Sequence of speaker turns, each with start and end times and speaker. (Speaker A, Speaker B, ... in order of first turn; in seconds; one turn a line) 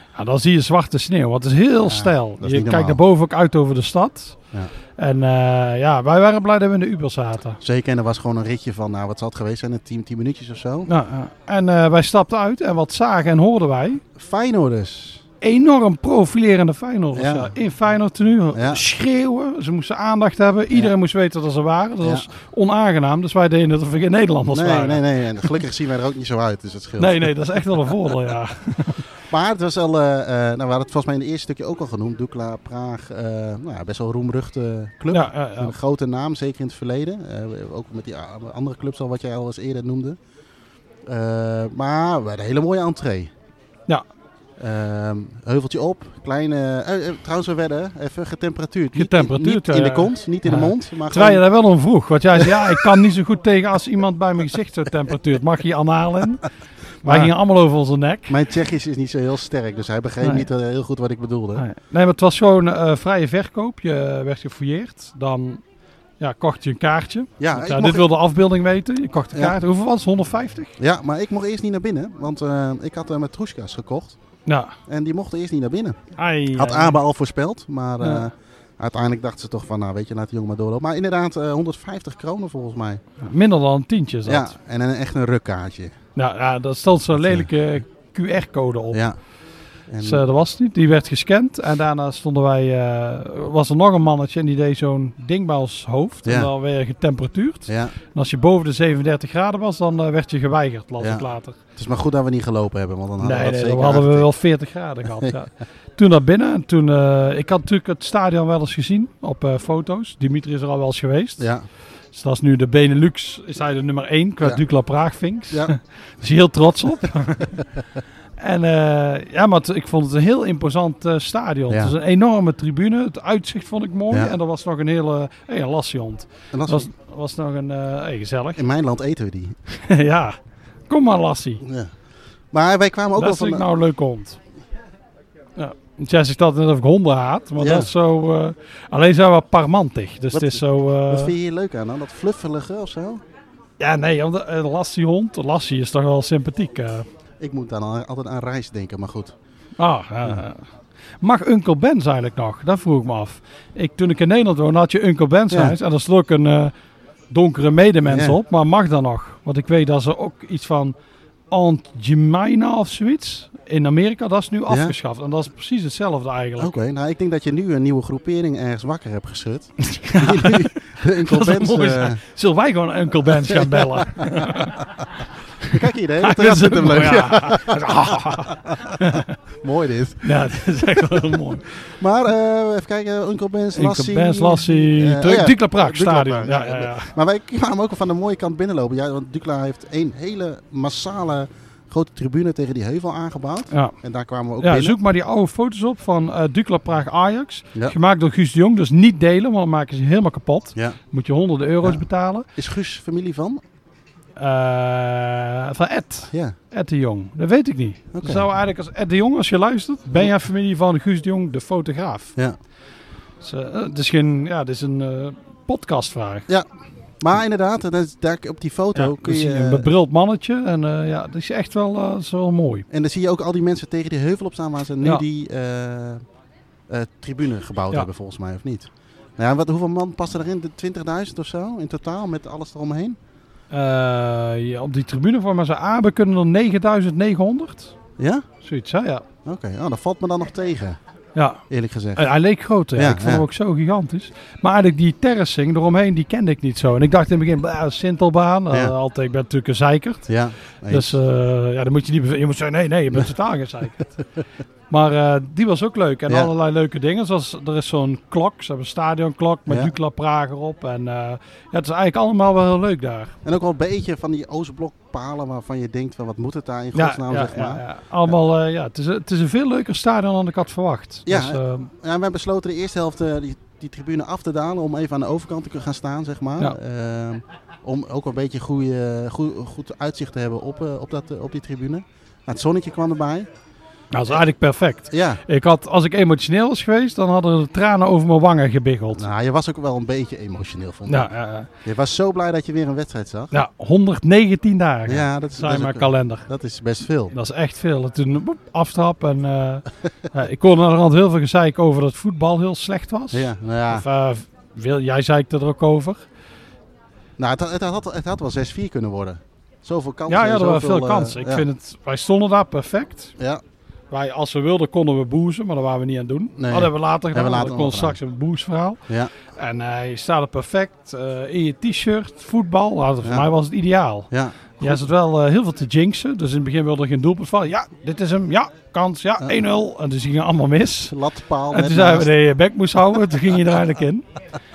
Speaker A: 0.1-4.4
Speaker B: 1.9-3.0
Speaker A: 5.0-7.6
Speaker B: 7.6-10.9
Speaker A: 10.9-14.0
Speaker B: 14.2-15.2
Speaker A: 15.4-25.5
Speaker B: 17.1-17.5
Speaker B: 18.5-18.8
Speaker B: 22.0-22.3
Speaker B: 24.5-27.6
Speaker A: 27.0-29.1
Speaker B: 29.3-40.2
Speaker A: 35.1-35.8
Speaker B: 41.1-43.3
Speaker B: 44.6-51.4
Speaker A: 48.9-56.5
Speaker B: 52.4-52.8
Speaker A: 57.0-58.4
Speaker B: 57.0-57.3
Speaker B: 58.3-61.6
Speaker A: 60.2-60.5
Speaker A: 61.6-65.6
Speaker A: 66.2-70.7
Speaker B: 67.4-68.1
Speaker B: 70.8-74.2
Speaker A: 74.5-74.8
Speaker B: 74.9-76.0
Speaker A: 76.2-77.0
Speaker B: 76.5-83.0
Speaker A: 83.2-84.5
Speaker B: 84.2-86.0
Speaker A: 86.2-89.0
Speaker B: 87.2-87.5
Speaker B: 88.9-89.2
Speaker B: 89.9-90.3
Speaker A: 90.0-101.6
Speaker B: 96.2-96.5
Speaker B: 97.7-97.9
Speaker B: 101.0-104.3
Speaker A: 103.2-111.5
Speaker B: 111.4-111.7
Speaker A: 112.1-117.6
Speaker A: 118.4-128.6
Speaker B: 121.7-121.9
Speaker B: 126.5-126.9
Speaker B: 128.6-129.6
Speaker A: 129.7-131.6
Speaker B: 131.6-131.9
Speaker B: 132.5-133.7
Speaker A: 133.2-134.4
Speaker A: 135.6-141.3
Speaker B: 137.6-137.9
Speaker B: 140.3-143.2
Speaker A: 143.8-147.1
Speaker B: 147.4-149.3
Speaker A: 149.8-150.7
Speaker A: 151.2-156.7
Speaker B: 155.5-155.8
Speaker A: 157.3-161.0
Speaker B: 158.1-158.4
Speaker A: 161.5-166.7
Speaker B: 164.7-164.9
Speaker B: 166.6-172.2
Speaker A: 169.8-174.9
Speaker B: 173.4-174.5
Speaker A: 175.6-179.3
Speaker B: 175.7-180.4
Speaker A: 180.2-181.8
Speaker B: 181.8-195.0
Speaker A: 183.7-187.2
Speaker A: 194.6-202.5
Speaker B: 202.6-203.6
Speaker A: 204.4-212.3
Speaker B: 208.1-208.4
Speaker A: 213.4-216.5
Speaker B: 217.2-219.9
Speaker A: 218.9-222.9
Speaker B: 222.9-226.2
Speaker B: 226.9-233.2
Speaker A: 233.7-237.9
Speaker B: 238.2-238.5
Speaker A: 238.6-239.2
Speaker B: 239.4-241.0
Speaker A: 241.3-241.6
Speaker B: 241.7-242.3
Speaker A: 242.2-250.3
Speaker B: 242.9-243.5
Speaker B: 250.3-251.2
Speaker A: 250.9-254.1
Speaker A: 254.9-263.4
Speaker B: 259.7-259.9
Speaker B: 263.4-268.3
Speaker A: 266.9-271.9
Speaker B: 271.3-283.5
Speaker A: 284.1-289.3
Speaker B: 285.1-285.4
Speaker B: 289.1-291.3
Speaker A: 291.1-291.7
Speaker B: 291.8-293.5
Speaker A: 293.5-296.5
Speaker B: 295.1-297.3
Speaker A: 297.3-306.2
Speaker B: 303.3-304.1
Speaker B: 307.4-311.7
Speaker A: 310.3-313.4
Speaker A: 314.1-319.0
Speaker B: 316.6-318.2
Speaker A: 319.5-331.2
Speaker B: 324.3-325.1
Speaker B: 331.1-332.3
Speaker A: 331.7-334.3